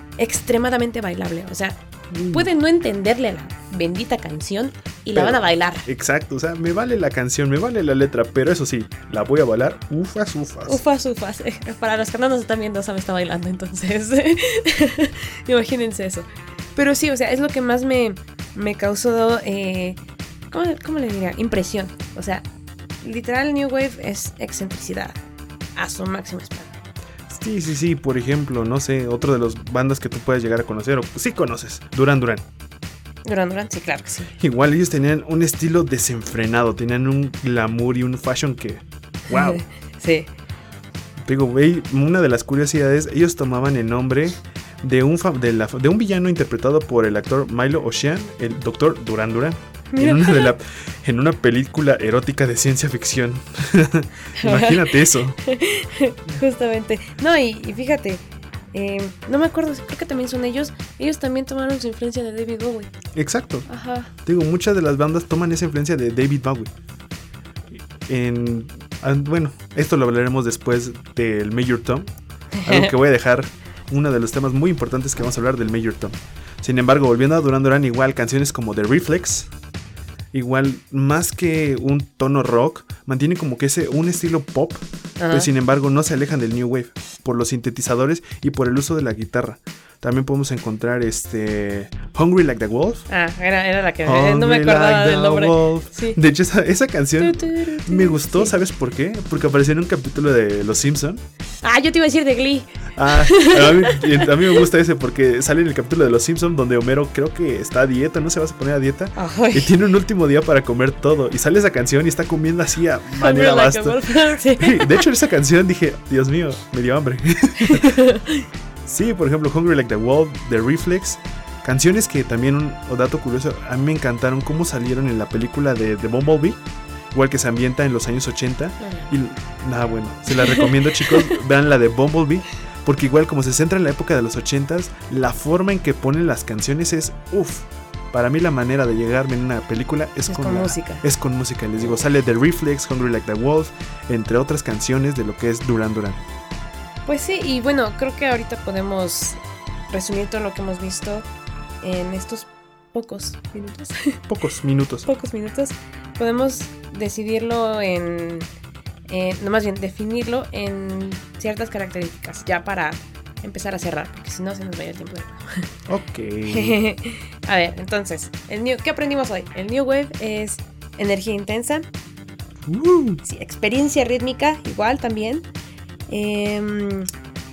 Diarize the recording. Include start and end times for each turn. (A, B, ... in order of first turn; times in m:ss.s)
0:00.2-0:05.8 A
0:02.1-0:02.5 B
0:05.1-0:10.8 B
0:10.7-0:20.0 A
0:20.5-0:22.4 A
0:23.0-0:25.2 A
0:25.8-0:26.7 A
0:27.3-0:32.4 B
0:33.2-0:34.3 A
0:34.4-0:39.6 B
0:39.3-0:40.3 A
0:41.2-0:55.4 B
0:49.9-0:50.5 A
0:54.4-1:02.9 A
1:03.1-1:03.7 B
1:03.7-1:04.1 A
1:04.2-1:06.7 B
1:08.0-1:12.1 B
1:12.6-1:12.9 A
1:12.6-1:19.5 B
1:20.3-1:33.0 B
1:25.2-1:25.5 A
1:33.1-1:36.2 A
1:34.0-1:41.2 B
1:37.2-1:38.5 A
1:41.6-1:44.6 A
1:42.9-1:58.0 B
1:49.2-1:49.7 A
1:53.2-1:55.0 A
1:57.6-1:58.5 A
1:58.8-2:06.6 B
2:07.1-2:26.2 B
2:08.8-2:09.1 A
2:10.3-2:11.3 A
2:20.3-2:21.0 A
2:27.1-2:29.4 A
2:29.9-2:31.2 A
2:31.8-2:34.2 A
2:34.3-2:35.1 B
2:35.0-2:38.5 A
2:39.1-2:45.6 A
2:45.9-2:46.8 B
2:46.5-2:51.8 A
2:52.7-2:53.2 B
2:53.2-2:55.5 A
2:56.1-2:57.1 A